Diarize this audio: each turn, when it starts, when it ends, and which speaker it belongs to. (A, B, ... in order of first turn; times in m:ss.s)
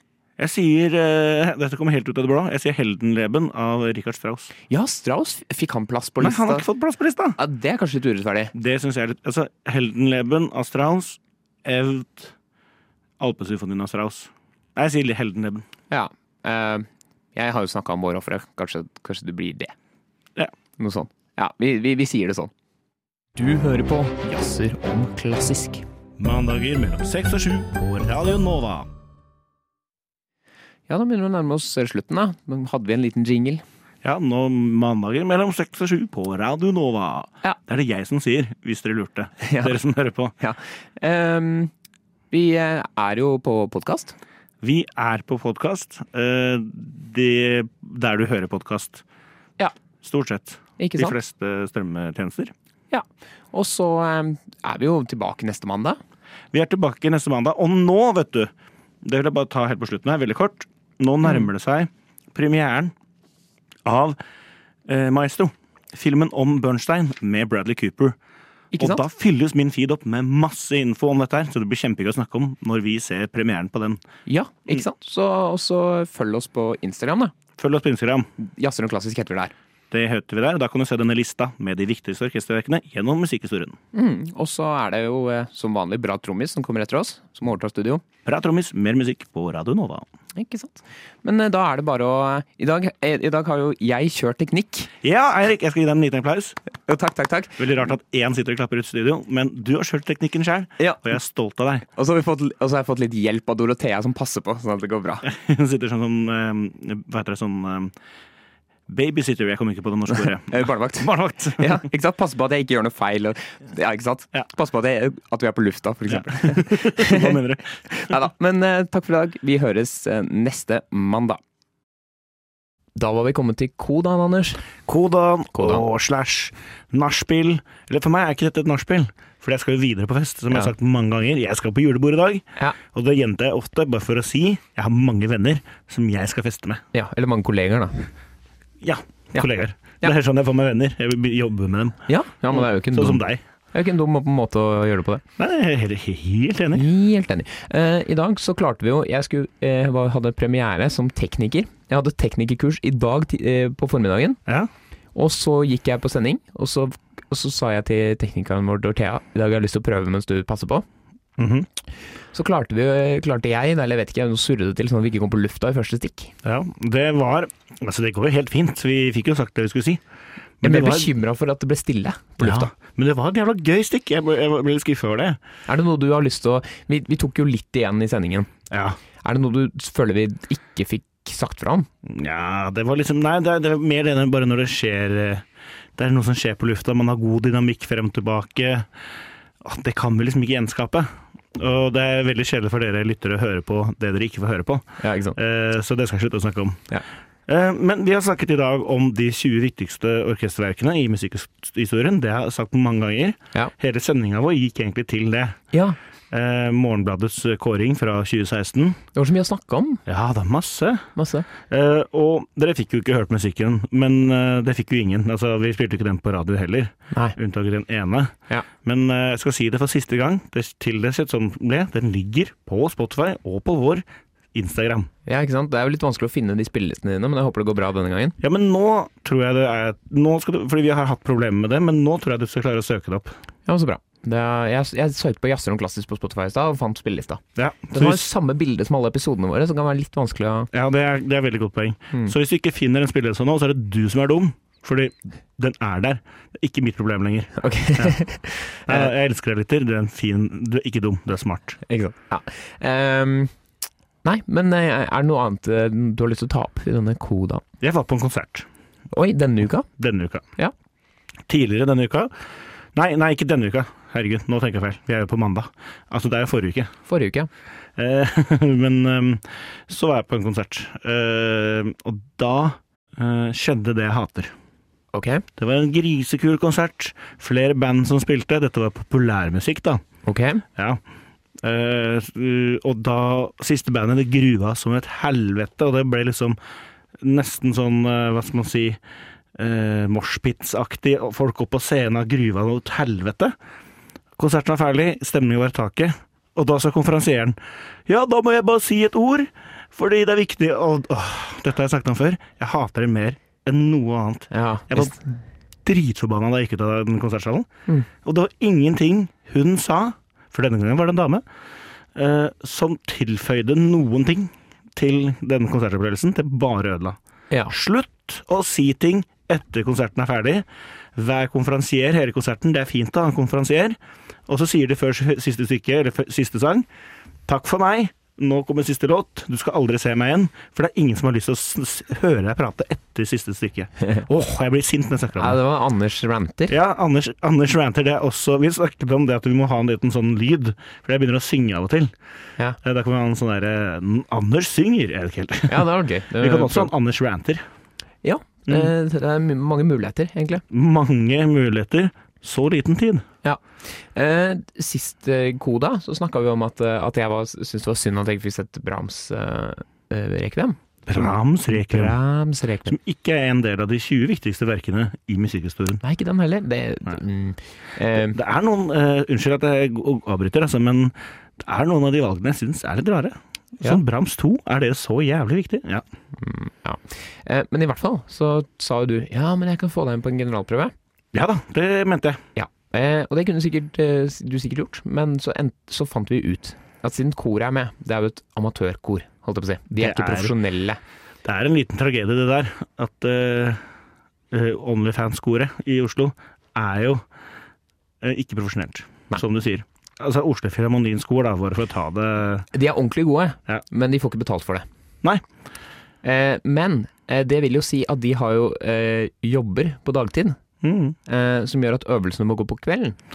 0:00.4-0:04.5 A
0:04.7-0:06.6 B
0:06.2-0:07.4 A
0:07.4-0:08.5 B
0:08.5-0:12.3 A
0:13.2-0:15.6 A
0:15.9-0:19.7 B
0:20.8-0:22.5 B
0:23.4-0:25.8 B
0:26.2-0:28.9 A
0:30.9-0:33.6 B
0:34.0-0:40.3 A
0:39.4-0:39.8 B
0:40.4-0:41.7 B
0:42.3-0:44.2 B
0:44.6-0:49.0 A
0:50.0-0:52.5 A
0:50.8-0:51.2 B
0:52.9-0:56.0 B
0:56.5-0:58.5 A
0:59.0-1:02.9 A
1:03.8-1:04.2 A
1:04.9-1:08.2 A
1:08.7-1:09.0 B
1:08.8-1:14.0 A
1:14.3-1:17.3 B
1:17.6-1:18.3 A
1:18.4-1:19.5 B
1:19.9-1:23.8 A
1:23.9-1:28.0 B
1:28.2-1:30.1 A
1:30.4-1:34.9 B
1:35.0-1:36.6 A
1:36.9-1:37.7 B
1:37.6-1:41.9 A
1:40.8-1:41.1 B
1:41.9-1:45.3 B
1:45.2-1:47.9 A
1:48.9-1:51.8 A
1:50.1-2:01.4 B
1:56.1-1:58.2 A
2:03.0-2:04.6 B
2:04.9-2:16.8 A
2:05.5-2:05.8 B
2:16.9-2:18.1 B
2:18.8-2:23.4 A
2:22.1-2:25.2 B
2:25.4-2:26.9 A
2:26.7-2:34.4 B
2:35.1-2:40.9 B
2:41.4-2:41.7 A
2:42.3-2:46.3 B
2:46.4-2:50.0 A
2:50.6-2:51.1 A
2:50.6-2:52.7 B
2:52.4-2:55.4 A
2:55.7-2:58.5 B
2:58.7-2:59.0 A
2:59.2-3:01.9 B
3:02.0-3:08.9 A
3:09.6-3:16.8 A
3:15.0-3:15.4 B
3:17.5-3:25.6 A
3:25.7-3:26.0 B
3:26.3-3:29.0 A
3:29.1-3:30.0 B
3:30.1-3:31.1 A
3:31.2-3:31.5 B
3:31.6-3:45.1 A
3:37.1-3:37.4 B
3:45.3-3:48.4 B
3:48.4-3:53.3 A
3:53.6-4:00.7 B
3:57.6-3:58.3 A
4:00.7-4:08.2 A
4:07.6-4:09.1 B
4:08.9-4:11.8 A
4:11.8-4:13.5 B
4:14.2-4:17.6 B
4:17.8-4:18.7 A
4:19.1-4:19.9 B
4:20.0-4:20.4 A
4:21.5-4:22.3 A
4:22.9-4:26.9 A
4:27.1-4:27.5 B
4:28.0-4:34.5 A
4:35.1-4:35.4 B
4:35.6-4:40.0 A
4:40.3-4:40.6 B
4:41.6-4:46.6 A
4:47.2-4:49.0 A
4:49.6-4:53.5 A
4:54.4-5:05.2 A
5:04.5-5:05.2 B
5:05.8-5:07.7 A
5:08.2-5:11.4 A
5:12.2-5:17.2 A
5:17.7-5:26.9 A
5:27.5-5:35.6 A
5:35.4-5:36.8 B
5:36.7-5:42.1 A
5:42.8-5:47.6 A
5:45.7-5:46.9 B
5:48.2-5:50.6 B
5:50.7-5:53.2 A
5:53.4-6:03.0 B
6:01.1-6:02.2 A
6:02.9-6:06.0 A
6:06.0-6:08.4 B
6:08.2-6:16.0 A
6:16.4-6:20.9 B
6:21.3-6:22.4 A
6:22.6-6:31.0 B
6:30.0-6:30.5 A
6:31.4-6:33.8 A
6:34.5-6:37.2 A
6:38.2-6:42.7 A
6:42.7-6:44.9 B
6:46.2-6:50.6 B
6:50.8-6:51.2 A
6:51.3-6:53.2 B